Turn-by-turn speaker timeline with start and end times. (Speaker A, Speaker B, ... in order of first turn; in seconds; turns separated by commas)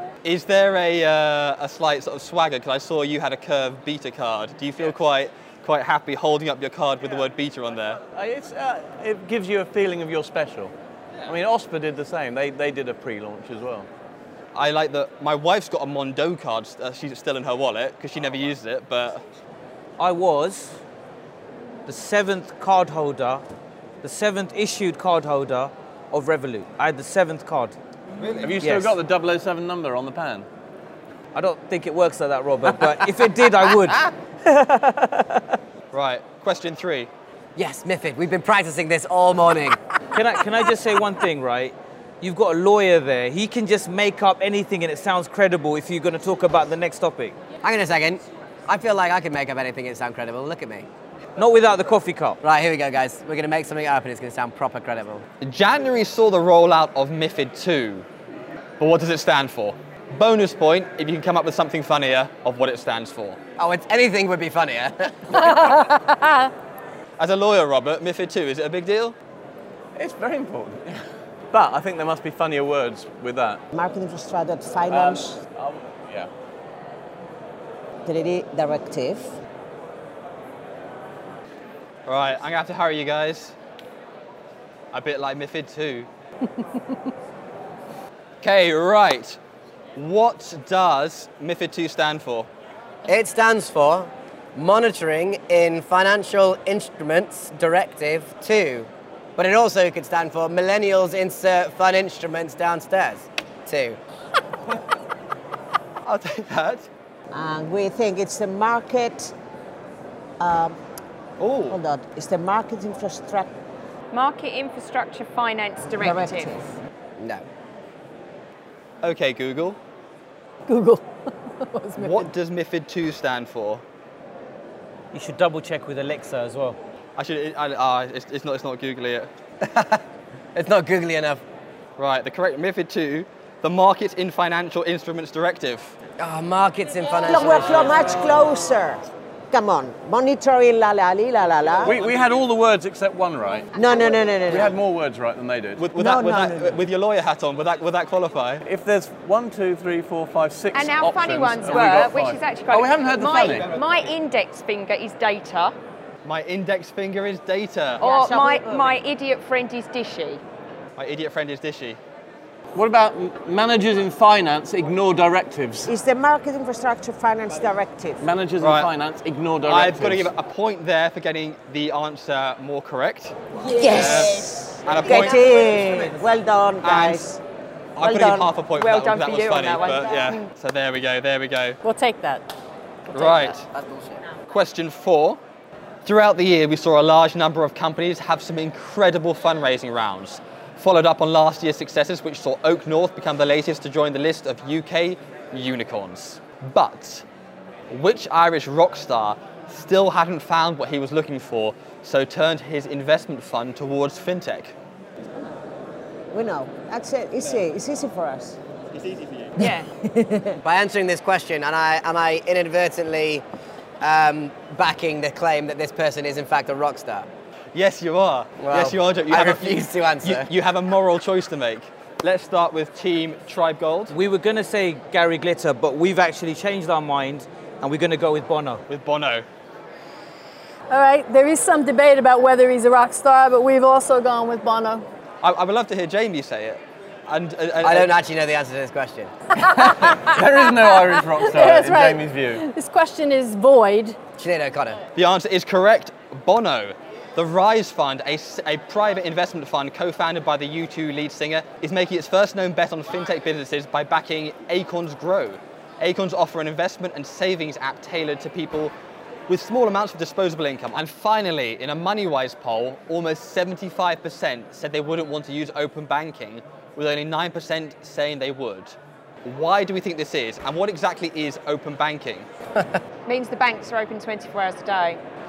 Speaker A: 0.2-8.0, Speaker B: 8.1-10.8, Speaker B: 11.3-13.9, Speaker A: 14.5-19.2, Speaker C: 20.0-20.8, Speaker C: 21.9-23.4, Speaker C: 24.0-27.8, Speaker A: 28.2-28.6, Speaker B: 28.4-30.5, Speaker C: 28.6-29.0, Speaker C: 31.3-35.6, Speaker A: 35.9-37.1, Speaker D: 37.6-39.8, Speaker C: 40.1-47.4, Speaker D: 47.6-50.9, Speaker C: 51.4-52.4, Speaker D: 52.4-55.2, Speaker A: 55.4-58.1, Speaker A: 58.8-63.4, Speaker D: 63.6-65.8, Speaker A: 67.2-69.2, Speaker B: 70.0-73.6, Speaker E: 73.7-75.4, Speaker B: 74.9-76.3, Speaker E: 78.1-79.3, Speaker A: 82.1-83.5, Speaker A: 84.9-86.1, Speaker A: 88.4-89.4, Speaker A: 90.0-92.5, Speaker D: 93.1-104.0, Speaker A: 106.0-106.9, Speaker E: 107.3-109.3, Speaker E: 110.4-110.8, Speaker A: 111.4-111.8, Speaker E: 111.7-113.5, Speaker F: 114.1-116.6, Speaker E: 115.8-116.7, Speaker D: 117.2-117.4, Speaker A: 119.0-119.8, Speaker G: 120.7-122.2, Speaker A: 122.0-123.8, Speaker C: 125.1-126.8, Speaker A: 127.2-129.3, Speaker D: 129.6-130.0, Speaker D: 130.6-131.4, Speaker A: 132.0-136.0, Speaker D: 136.2-138.2, Speaker E: 137.2-142.0, Speaker B: 141.8-143.7, Speaker E: 143.7-144.8, Speaker B: 144.5-145.9, Speaker A: 145.8-148.6, Speaker E: 145.9-146.8, Speaker B: 148.6-153.9, Speaker F: 150.7-155.7, Speaker A: 156.2-158.0, Speaker F: 158.0-160.4, Speaker E: 158.0-159.0, Speaker A: 161.0-162.0, Speaker B: 162.7-165.9, Speaker E: 165.9-168.3, Speaker B: 168.2-170.3, Speaker A: 168.6-168.9, Speaker A: 169.6-173.4, Speaker G: 173.7-174.6, Speaker A: 173.9-175.4, Speaker E: 175.0-177.4, Speaker A: 176.8-177.3, Speaker A: 178.0-181.8, Speaker E: 178.0-178.6, Speaker F: 178.7-180.5, Speaker G: 181.8-182.4, Speaker A: 183.1-183.6, Speaker D: 183.7-184.2, Speaker A: 184.5-185.4, Speaker A: 186.1-197.3, Speaker A: 197.9-204.8, Speaker E: 206.3-208.6, Speaker A: 208.9-209.6, Speaker E: 209.6-210.6, Speaker F: 209.6-209.8, Speaker D: 210.6-213.4, Speaker D: 214.0-217.3, Speaker A: 217.7-224.1, Speaker D: 218.6-220.5, Speaker C: 224.1-228.8, Speaker A: 228.9-229.5, Speaker G: 230.9-235.1, Speaker A: 235.4-238.1, Speaker D: 237.8-239.3, Speaker G: 239.6-244.2, Speaker B: 239.7-242.7, Speaker D: 244.4-245.0, Speaker A: 245.2-258.9, Speaker A: 259.5-272.5, Speaker F: 273.3-275.2